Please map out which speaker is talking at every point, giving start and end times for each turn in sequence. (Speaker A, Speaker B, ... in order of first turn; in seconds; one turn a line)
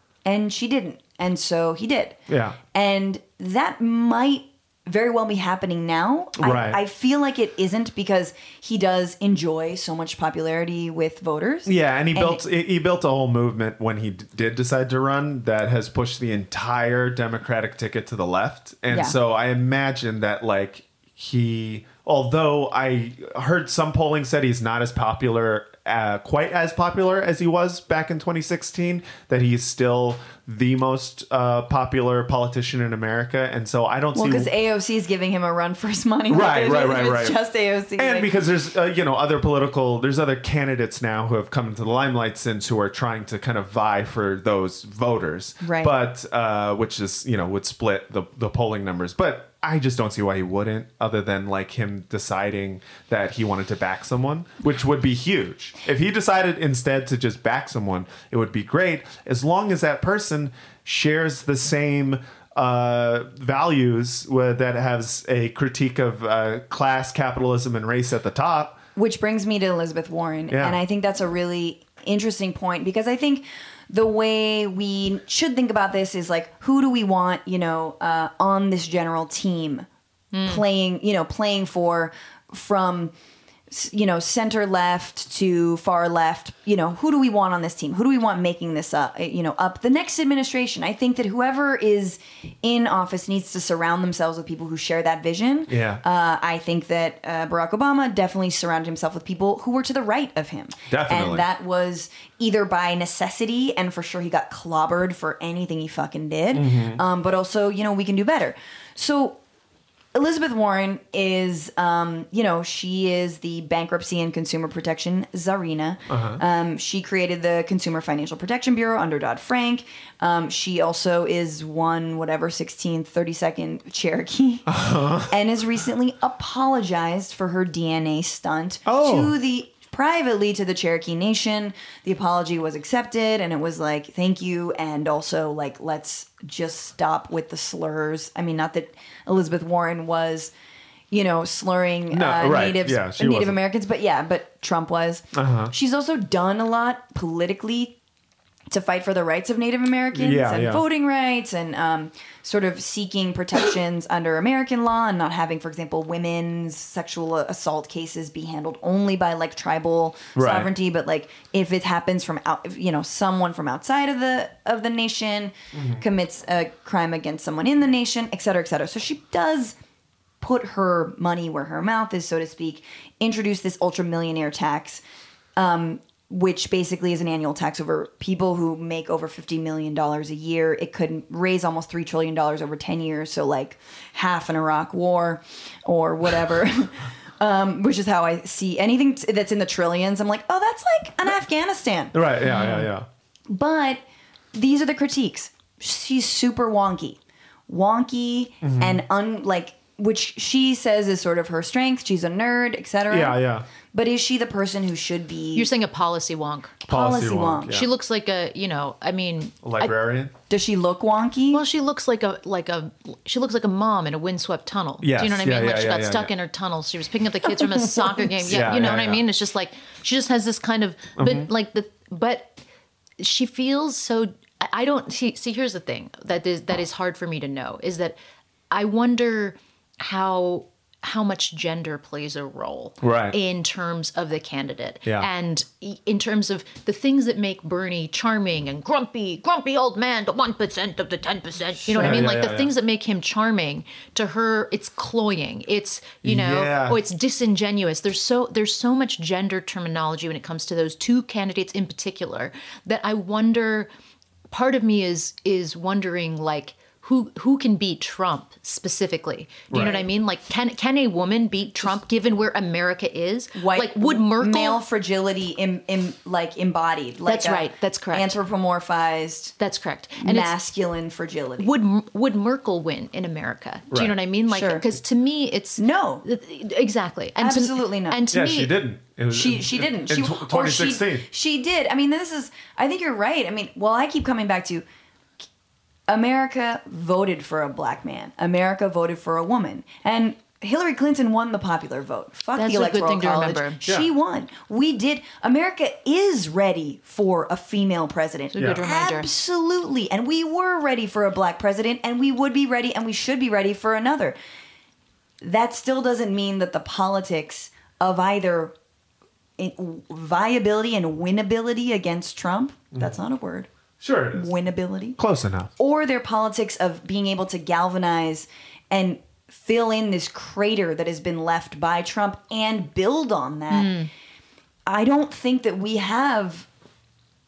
Speaker A: 0.2-2.2
Speaker B: 2.3-2.6
Speaker A: 2.7-12.4
Speaker B: 6.4-6.8
Speaker B: 11.7-34.5
Speaker A: 18.9-19.2
Speaker A: 34.1-38.3
Speaker B: 36.3-37.4
Speaker B: 38.0-68.8
Speaker A: 45.6-45.9
Speaker A: 69.0-79.8
Speaker B: 70.5-70.8
Speaker C: 80.3-80.6
Speaker A: 80.4-83.1
Speaker A: 83.7-109.4
Speaker B: 95.7-96.0
Speaker B: 100.9-101.5
Speaker B: 106.5-107.0
Speaker A: 110.1-140.5
Speaker B: 116.1-116.4
Speaker B: 124.7-125.3
Speaker B: 128.9-129.3
Speaker A: 141.1-147.9
Speaker B: 142.1-143.6
Speaker B: 145.3-145.7
Speaker A: 148.7-169.8
Speaker B: 150.1-150.8
Speaker B: 160.3-160.7
Speaker B: 165.7-166.0
Speaker A: 170.4-175.0
Speaker A: 175.6-192.1
Speaker B: 192.1-193.1
Speaker C: 192.4-192.9
Speaker A: 193.5-194.0
Speaker A: 194.5-203.4
Speaker B: 198.6-199.0
Speaker B: 203.1-203.7
Speaker A: 203.9-205.7
Speaker C: 205.5-206.8
Speaker A: 206.8-207.7
Speaker B: 206.9-207.9
Speaker C: 207.7-209.9
Speaker B: 209.6-210.3
Speaker A: 210.5-211.6
Speaker C: 211.5-222.6
Speaker B: 215.0-216.3
Speaker B: 218.4-219.2
Speaker B: 221.2-221.5
Speaker C: 223.2-228.2
Speaker C: 228.7-253.9
Speaker B: 233.0-233.3
Speaker B: 241.9-242.7
Speaker B: 246.2-247.0
Speaker C: 254.5-264.8
Speaker B: 259.7-260.0
Speaker A: 263.5-269.5
Speaker C: 267.2-268.4
Speaker C: 269.6-270.6
Speaker A: 270.2-271.7
Speaker C: 271.6-278.8
Speaker A: 274.5-274.9
Speaker A: 275.8-276.2
Speaker A: 277.4-278.2
Speaker B: 278.3-281.3
Speaker A: 279.3-284.8
Speaker A: 286.1-304.4
Speaker C: 292.5-293.8
Speaker C: 298.5-299.3
Speaker B: 298.6-298.8
Speaker A: 305.4-308.7
Speaker A: 309.6-313.7
Speaker B: 314.0-314.5
Speaker A: 314.3-315.2
Speaker B: 315.2-315.7
Speaker A: 315.8-324.0
Speaker C: 323.7-324.1
Speaker A: 324.9-326.7